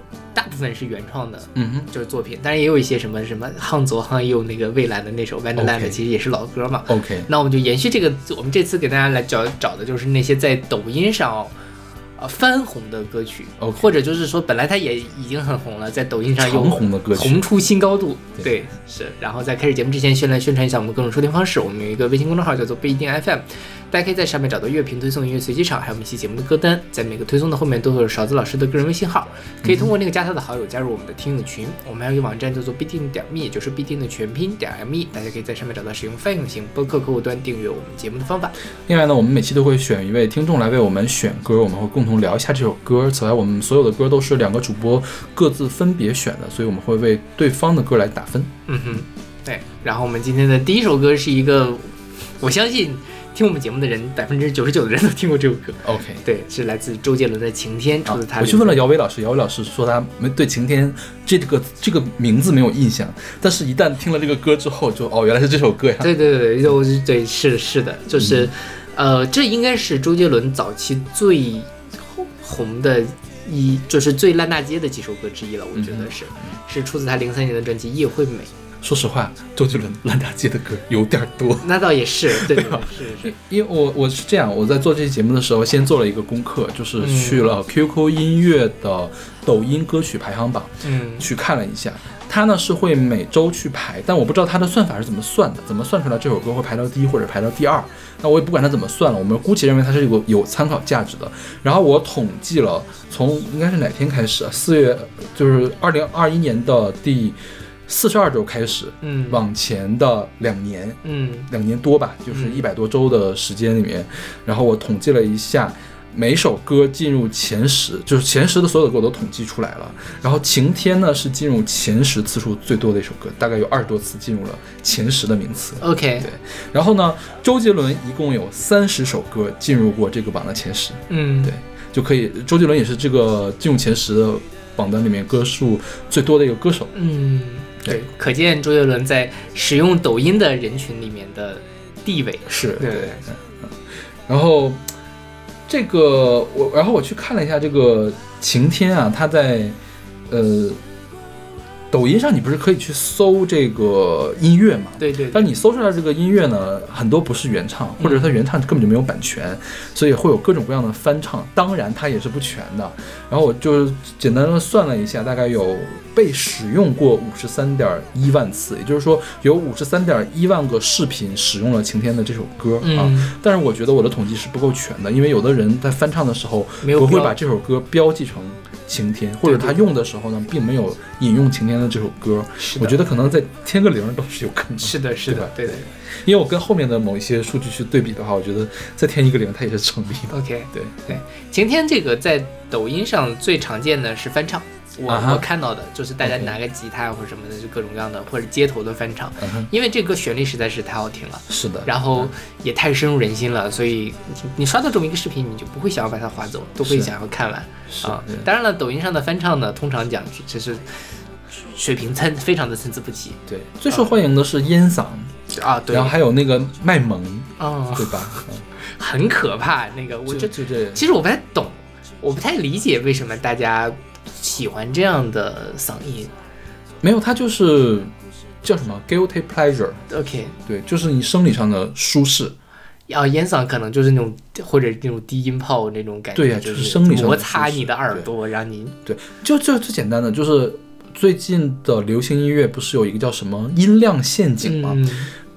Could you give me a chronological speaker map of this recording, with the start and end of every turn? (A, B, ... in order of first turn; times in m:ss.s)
0:00.4-0:11.5 A
0:01.6-0:01.9 B
0:05.6-0:06.0 B
0:06.9-0:07.3 B
0:12.2-0:38.6 A
0:13.6-0:13.9 B
0:16.4-0:17.5 B
0:29.6-0:29.9 B
0:38.9-0:49.0 B
0:48.7-0:58.8 A
0:55.8-0:56.2 B
0:58.0-1:06.2 B
1:06.0-1:18.5 A
1:08.1-1:08.5 B
1:15.7-1:16.6 B
1:18.8-2:16.9 B
1:21.6-1:23.4 A
1:27.0-1:27.5 A
1:30.8-1:31.3 A
1:49.0-1:49.4 A
1:51.0-1:51.5 A
1:52.3-1:52.6 A
2:05.8-2:06.3 A
2:11.1-2:11.5 A
2:16.9-2:23.2 A
2:22.5-2:23.7 B
2:24.3-2:24.9 B
2:25.7-2:29.8 B
2:30.3-2:30.8 B
2:31.9-3:11.2 B
2:35.0-2:35.6 A
2:38.0-2:38.4 A
2:52.8-2:53.3 A
2:56.8-2:57.4 A
2:59.4-2:59.8 A
3:02.6-3:03.0 A
3:04.8-3:05.9 A
3:10.3-3:31.0 A
3:15.1-3:15.5 B
3:16.2-3:16.6 B
3:19.4-3:19.7 B
3:21.5-3:22.3 B
3:26.8-3:27.1 B
3:27.9-3:28.5 B
3:31.7-3:34.1 A
3:33.5-3:35.3 B
3:35.5-3:36.2 A
3:35.9-3:38.7 B
3:37.6-3:46.3 A
3:40.3-3:41.0 B
3:47.0-3:50.0 B
3:50.1-3:50.6 A
3:50.7-3:52.6 B
3:53.1-3:59.0 A
3:56.4-3:58.3 B
3:59.0-4:05.1 B
4:04.6-4:05.3 A